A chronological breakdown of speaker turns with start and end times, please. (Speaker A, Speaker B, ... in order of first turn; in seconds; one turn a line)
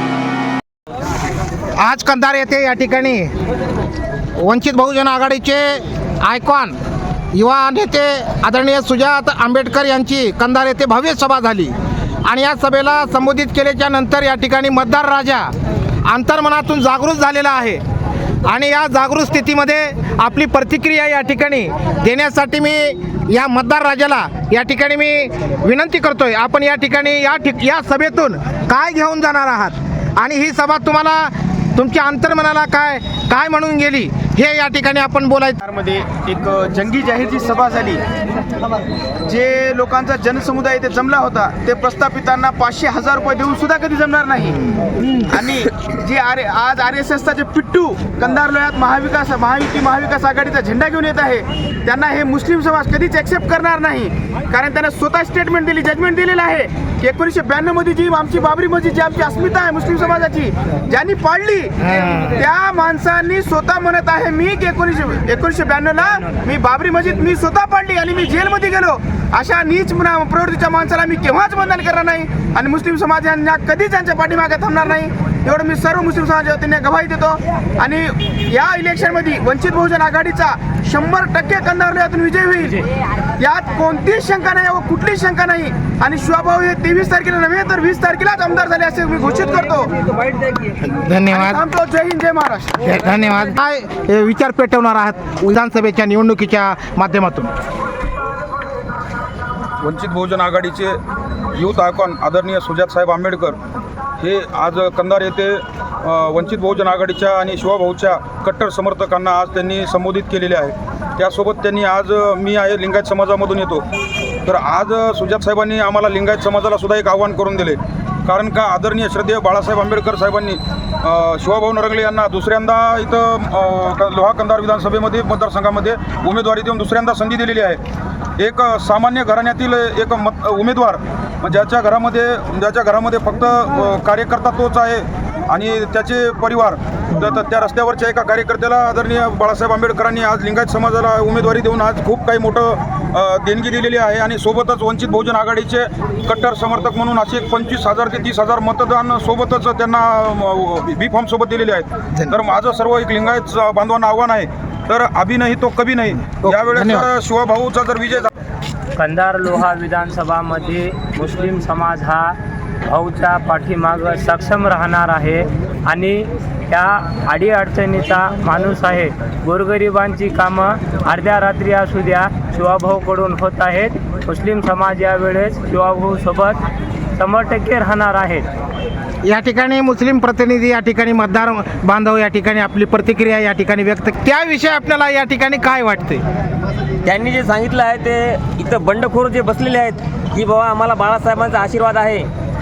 Speaker A: 1.8-3.3
Speaker A: 4.4-6.8
Speaker A: 7.3-15.5
Speaker A: 16.1-17.8
Speaker A: 18.4-35.6
Speaker B: 35.6-38.0
Speaker B: 39.2-82.8
Speaker A: 61.9-62.4
Speaker B: 83.4-90.1
Speaker A: 90.8-91.6
Speaker B: 91.3-93.0
Speaker A: 92.8-97.5
Speaker C: 99.8-101.0
Speaker C: 101.5-103.6
Speaker C: 104.2-113.8
Speaker C: 114.5-127.8
Speaker C: 128.4-158.3
Speaker A: 156.4-157.1
Speaker D: 159.0-176.6
Speaker D: 177.2-178.5
Speaker A: 179.2-186.2
Speaker E: 187.0-192.3